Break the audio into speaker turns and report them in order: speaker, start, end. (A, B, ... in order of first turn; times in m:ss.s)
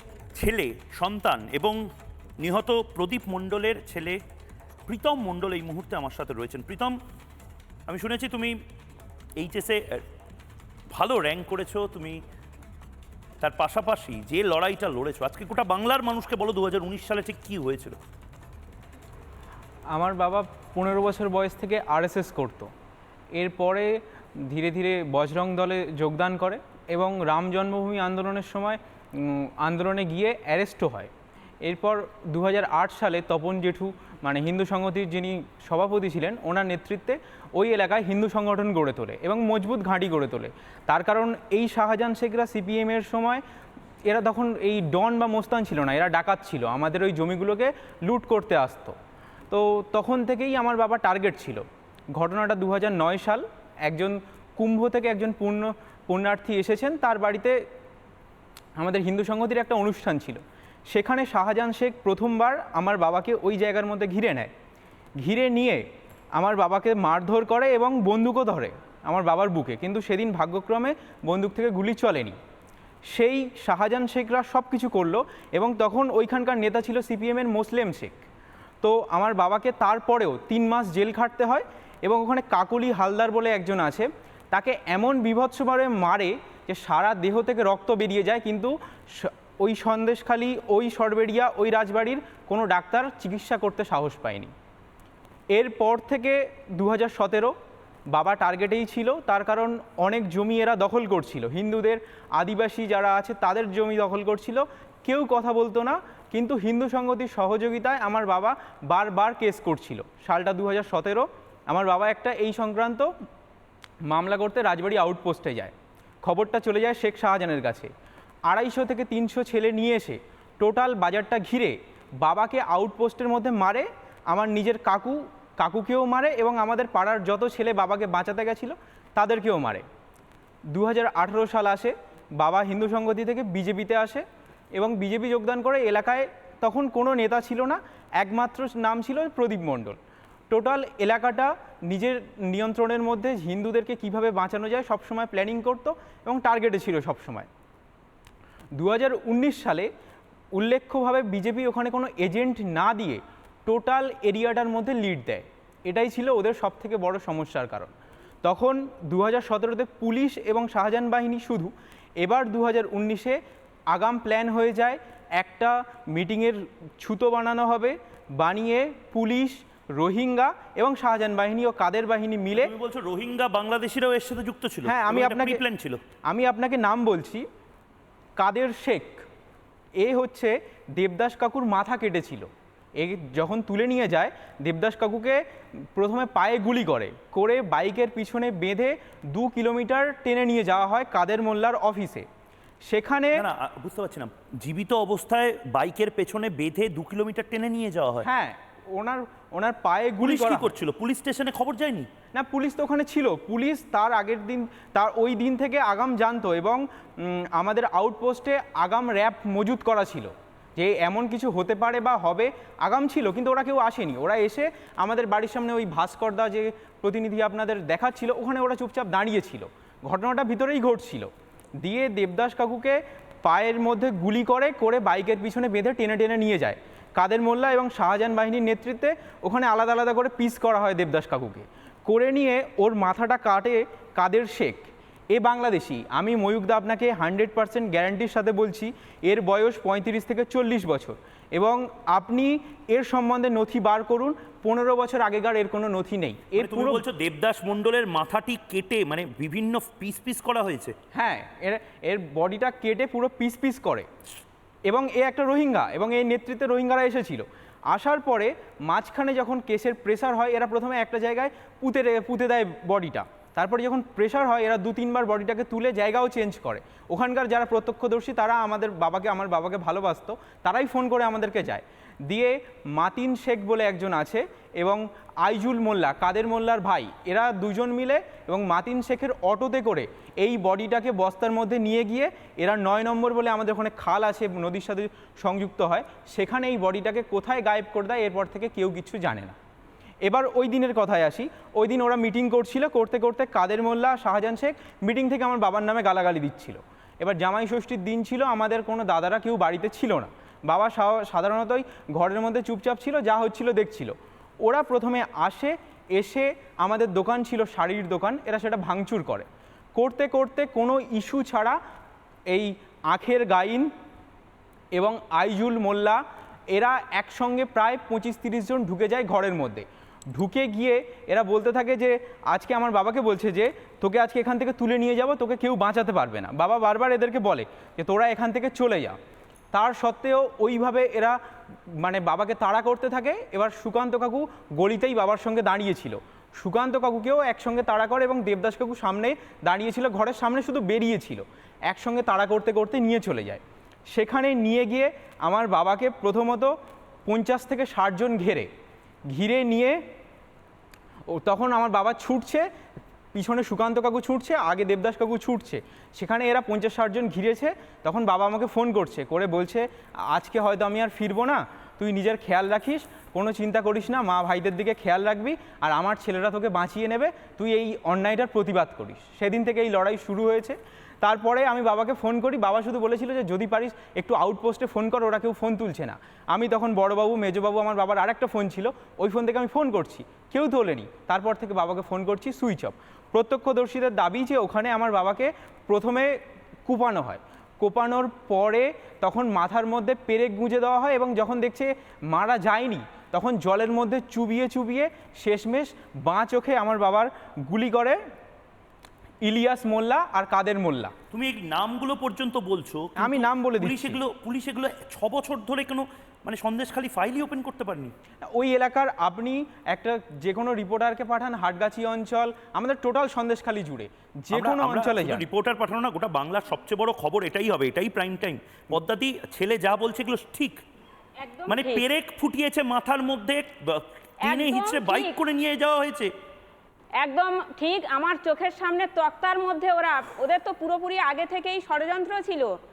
0:00.3-0:01.8 A
0:02.4-0:04.2 A
0:04.9-0:07.0 A
0:07.9-0:08.6 A
0:09.4-0:10.0 A
0:10.9-0:12.2 A
0:13.4-0:18.0 A
0:19.9-0:22.7 B
0:23.3-0:31.1 B
0:31.6-0:43.4 B
0:44.0-0:48.9 B
0:49.5-0:57.6 B
0:58.8-1:04.5 B
1:05.2-1:05.8 B
1:06.4-1:12.4 B
1:13.1-1:18.1 B
1:18.8-1:34.5 B
1:35.5-1:37.5 B
1:38.1-1:53.1 B
1:54.1-1:57.9 B
1:58.4-2:09.8 B
2:10.7-2:14.2 B
2:14.8-2:20.0 B
2:20.5-2:27.5 B
2:28.8-2:29.9 B
2:30.5-2:43.4 B
2:43.9-2:52.7 B
2:52.5-2:56.0 A
2:54.8-2:55.6 B
2:56.3-2:57.4 B
2:58.4-2:59.2 B
3:00.0-3:05.4 B
3:05.9-3:12.2 B
3:12.8-3:13.5 B
3:13.3-3:18.3 A
3:18.2-3:20.7 B
3:20.2-3:22.1 A
3:22.3-4:07.0 B
4:06.6-4:11.0 A
4:11.1-4:14.1 B
4:14.8-4:49.6 B
4:50.2-5:11.8 B
5:12.5-5:13.9 B
5:14.9-5:16.2 B
5:16.7-5:29.2 B
5:29.7-5:31.4 B
5:31.9-5:43.6 B
5:44.1-5:46.7 B
5:47.2-5:48.7 B
5:49.3-5:50.0 B
5:51.3-5:52.7 B
5:53.3-6:38.2 B
6:39.4-6:41.1 B
6:41.3-6:48.1 A
6:43.2-6:44.2 B
6:48.5-6:55.5 B
6:54.5-7:00.8 A
7:01.4-7:02.0 C
7:01.7-7:06.3 A
7:04.4-7:05.4 C
7:07.2-7:12.7 C